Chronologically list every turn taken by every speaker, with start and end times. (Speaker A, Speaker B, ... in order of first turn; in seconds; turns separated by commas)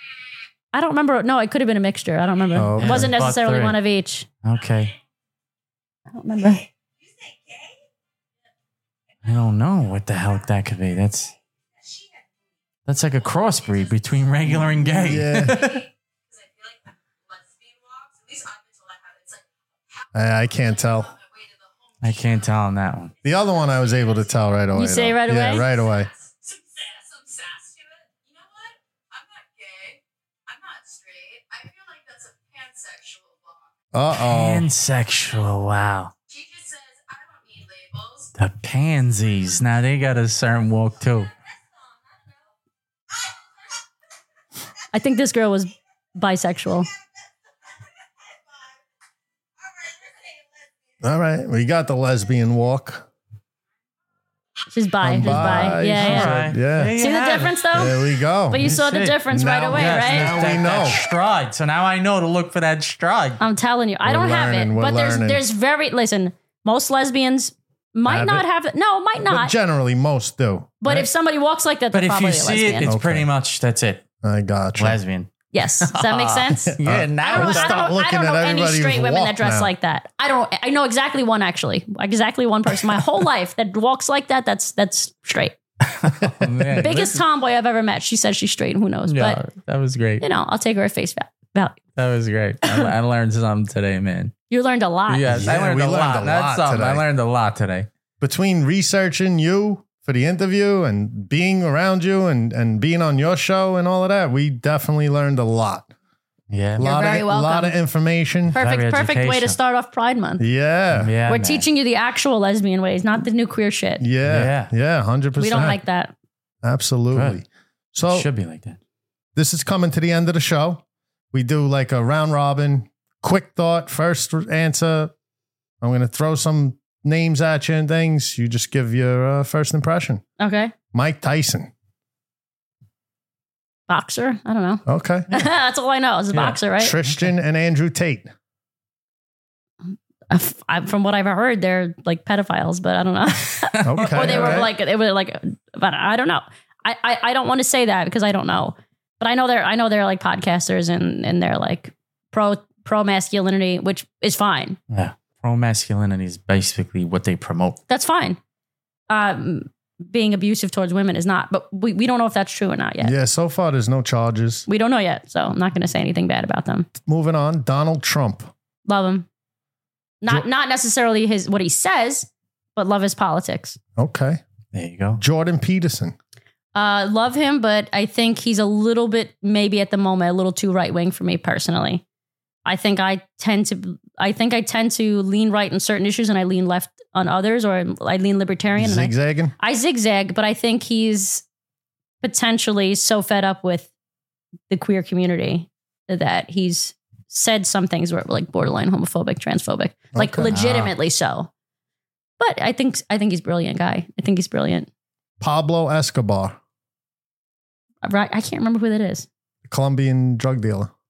Speaker A: 0.7-4.3, Speaker B: 2.5-3.2, Speaker C: 2.6-3.8, Speaker C: 4.4-5.0, Speaker A: 6.1-6.7, Speaker C: 9.2-11.3, Speaker C: 12.9-15.9, Speaker D: 13.2-14.1, Speaker B: 14.5-15.7, Speaker D: 15.5-24.4, Speaker B: 20.1-21.1, Speaker C: 22.0-23.1, Speaker B: 23.2-26.1, Speaker A: 24.7-25.7, Speaker D: 25.5-33.8, Speaker B: 33.9-34.7, Speaker C: 34.1-36.1, Speaker D: 36.3-38.3, Speaker C: 38.4-41.3, Speaker D: 39.1-39.5, Speaker D: 41.1-41.6, Speaker A: 44.9-46.9, Speaker B: 51.0-53.1, Speaker A: 54.7-56.4, Speaker B: 55.0-57.0, Speaker C: 55.2-57.6, Speaker A: 57.0-60.4, Speaker B: 57.7-58.8, Speaker C: 58.5-63.4, Speaker B: 59.3-61.1, Speaker A: 63.4-69.5, Speaker B: 64.0-65.4, Speaker B: 68.1-68.5, Speaker B: 69.3-71.1, Speaker A: 70.8-72.9, Speaker C: 71.9-74.0, Speaker B: 72.8-73.3, Speaker B: 74.2-75.0, Speaker C: 74.8-77.8, Speaker A: 75.5-85.6, Speaker B: 76.7-79.7, Speaker C: 85.8-87.2, Speaker B: 86.4-86.8, Speaker A: 86.8-89.4, Speaker C: 89.1-90.2, Speaker A: 90.2-91.8, Speaker C: 92.0-94.3, Speaker A: 92.6-92.9, Speaker A: 94.5-95.3, Speaker C: 95.1-97.9, Speaker B: 95.2-97.0, Speaker B: 98.2-105.9, Speaker C: 106.5-106.8, Speaker B: 106.8-108.6, Speaker A: 106.8-107.8, Speaker A: 108.5-110.4, Speaker C: 108.5-109.6, Speaker B: 110.4-111.1, Speaker C: 110.9-111.7, Speaker A: 111.3-114.0, Speaker B: 114.0-115.8, Speaker C: 114.2-114.7, Speaker A: 115.4-116.1, Speaker B: 116.6-118.3, Speaker C: 117.1-117.4, Speaker C: 118.1-118.8, Speaker B: 119.4-125.1, Speaker B: 125.8-130.2, Speaker A: 130.4-130.7, Speaker B: 130.9-131.7, Speaker A: 133.9-137.0, Speaker B: 134.9-135.5, Speaker C: 136.3-137.2, Speaker B: 136.8-138.3, Speaker A: 140.3-154.8, Speaker C: 143.6-144.7, Speaker B: 143.9-144.7, Speaker C: 154.9-157.8, Speaker A: 157.9-158.4, Speaker A: 159.1-163.1, Speaker B: 163.0-164.7, Speaker A: 164.7-166.9, Speaker B: 167.0-168.5, Speaker A: 168.9-169.3, Speaker A: 170.2-173.8, Speaker B: 174.0-174.4, Speaker C: 174.7-175.2, Speaker B: 175.2-176.2, Speaker A: 176.8-182.0, Speaker A: 182.7-191.4, Speaker B: 188.8-189.5, Speaker A: 192.2-193.9, Speaker A: 194.7-201.5, Speaker B: 200.1-200.5, Speaker C: 200.5-200.9, Speaker A: 202.4-204.9, Speaker B: 205.4-206.6, Speaker A: 208.0-209.3, Speaker B: 209.7-210.9